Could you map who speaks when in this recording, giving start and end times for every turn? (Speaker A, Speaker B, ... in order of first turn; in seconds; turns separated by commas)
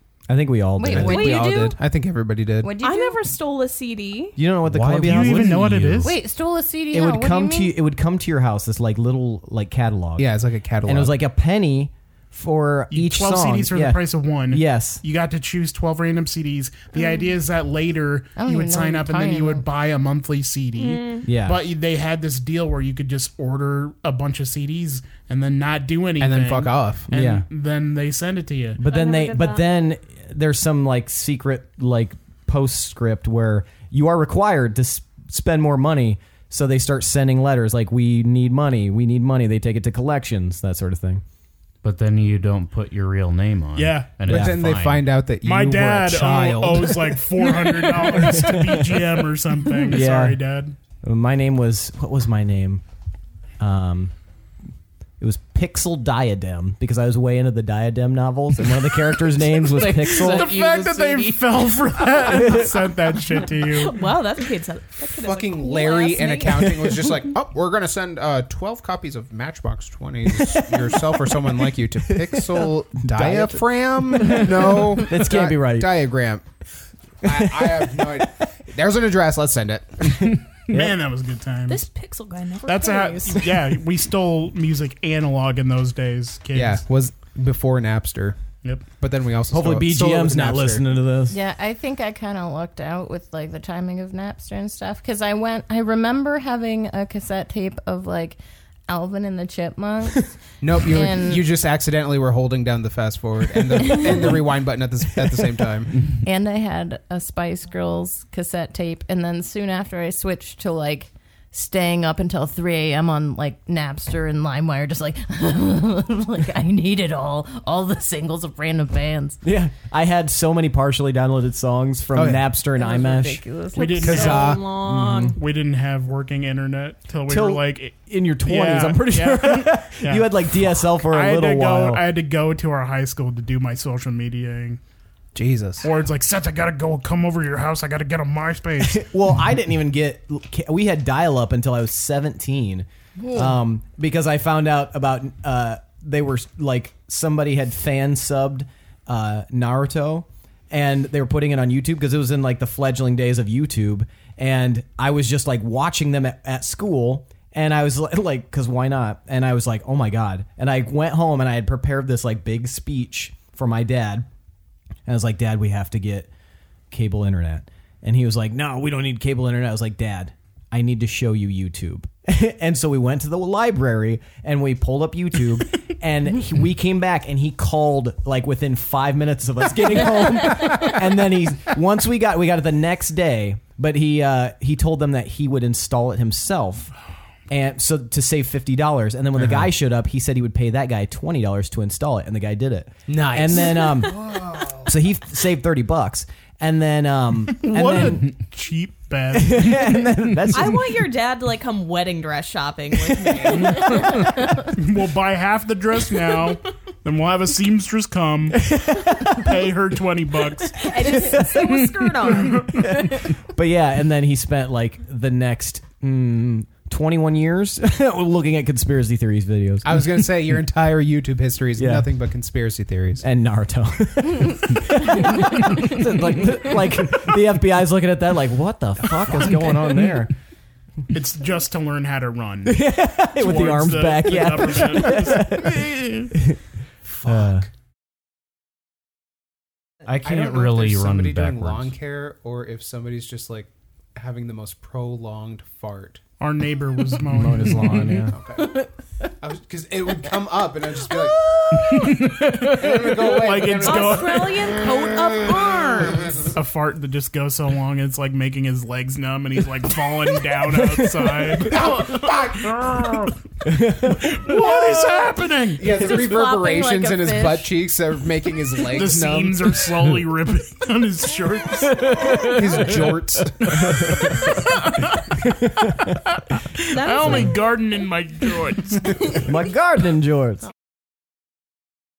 Speaker A: 0.3-1.4, Speaker B: 0.8-1.8, Speaker C: 0.9-2.7, Speaker D: 1.1-1.6, Speaker B: 2.6-3.3, Speaker D: 2.8-4.4, Speaker A: 4.4-5.8, Speaker E: 4.7-6.1, Speaker F: 5.0-6.2, Speaker B: 6.0-7.8, Speaker A: 6.9-10.3, Speaker C: 10.2-11.2, Speaker A: 10.8-15.0, Speaker F: 12.9-28.8, Speaker B: 18.4-19.6, Speaker D: 20.8-21.3, Speaker A: 21.3-21.7, Speaker C: 26.2-27.1, Speaker A: 27.1-27.5, Speaker A: 28.8-41.2, Speaker D: 28.9-29.7, Speaker E: 41.8-45.1, Speaker F: 43.8-44.2, Speaker A: 44.3-44.6, Speaker C: 44.3-47.2, Speaker F: 45.4-50.8, Speaker A: 48.1-49.1, Speaker A: 49.8-50.4, Speaker A: 51.0-52.8, Speaker A: 53.6-54.1, Speaker A: 55.2-60.6, Speaker E: 59.5-61.5, Speaker F: 60.0-64.0, Speaker D: 63.3-67.1, Speaker C: 65.1-76.5, Speaker A: 70.3-75.9, Speaker C: 77.2-80.3, Speaker A: 77.3-77.9, Speaker A: 80.0-81.0, Speaker F: 80.7-81.8, Speaker D: 81.7-83.4, Speaker F: 82.7-86.8, Speaker C: 86.5-88.4, Speaker C: 89.0-90.9, Speaker A: 89.5-91.4, Speaker B: 91.3-100.3, Speaker C: 100.6-106.1, Speaker B: 100.9-101.5, Speaker B: 103.8-104.3, Speaker B: 106.2-119.4, Speaker A: 119.4-123.5, Speaker C: 122.1-122.5, Speaker B: 122.7-124.3, Speaker D: 123.7-125.4, Speaker F: 123.8-124.6, Speaker C: 124.0-124.6, Speaker A: 124.8-125.3, Speaker F: 125.3-134.8, Speaker A: 127.3-132.0, Speaker C: 135.3-135.9, Speaker F: 135.8-139.0, Speaker A: 138.8-164.3, Speaker B: 143.2-143.5, Speaker A: 165.1-166.3, Speaker A: 166.9-186.9, Speaker A: 187.5-194.3, Speaker C: 193.1-194.7, Speaker A: 194.8-198.3, Speaker F: 197.6-200.2, Speaker A: 199.3-201.0, Speaker D: 200.5-204.1, Speaker F: 203.4-210.9, Speaker B: 203.9-204.3, Speaker A: 208.5-209.7, Speaker D: 210.8-212.8, Speaker A: 211.1-211.7, Speaker F: 212.4-212.9, Speaker A: 212.7-220.4, Speaker C: 219.8-223.2, Speaker A: 221.8-222.1, Speaker A: 223.2-230.3, Speaker F: 231.1-236.2, Speaker A: 232.7-236.6, Speaker C: 237.1-237.6, Speaker A: 237.2-237.7, Speaker E: 240.1-241.9, Speaker C: 240.2-246.2, Speaker F: 246.4-248.3, Speaker A: 247.1-248.3, Speaker C: 248.2-248.9, Speaker C: 249.4-254.8, Speaker B: 251.1-251.9, Speaker E: 251.9-252.9, Speaker F: 252.4-254.7, Speaker D: 253.8-256.4, Speaker F: 256.5-263.3, Speaker A: 260.9-261.7, Speaker C: 261.7-263.1, Speaker A: 263.6-264.8, Speaker F: 264.1-265.9, Speaker C: 265.8-269.9, Speaker B: 265.9-267.7, Speaker F: 268.9-272.5, Speaker E: 272.1-273.2, Speaker C: 272.4-274.2, Speaker F: 273.6-279.5, Speaker A: 275.4-276.1, Speaker D: 276.9-277.6, Speaker A: 279.4-280.7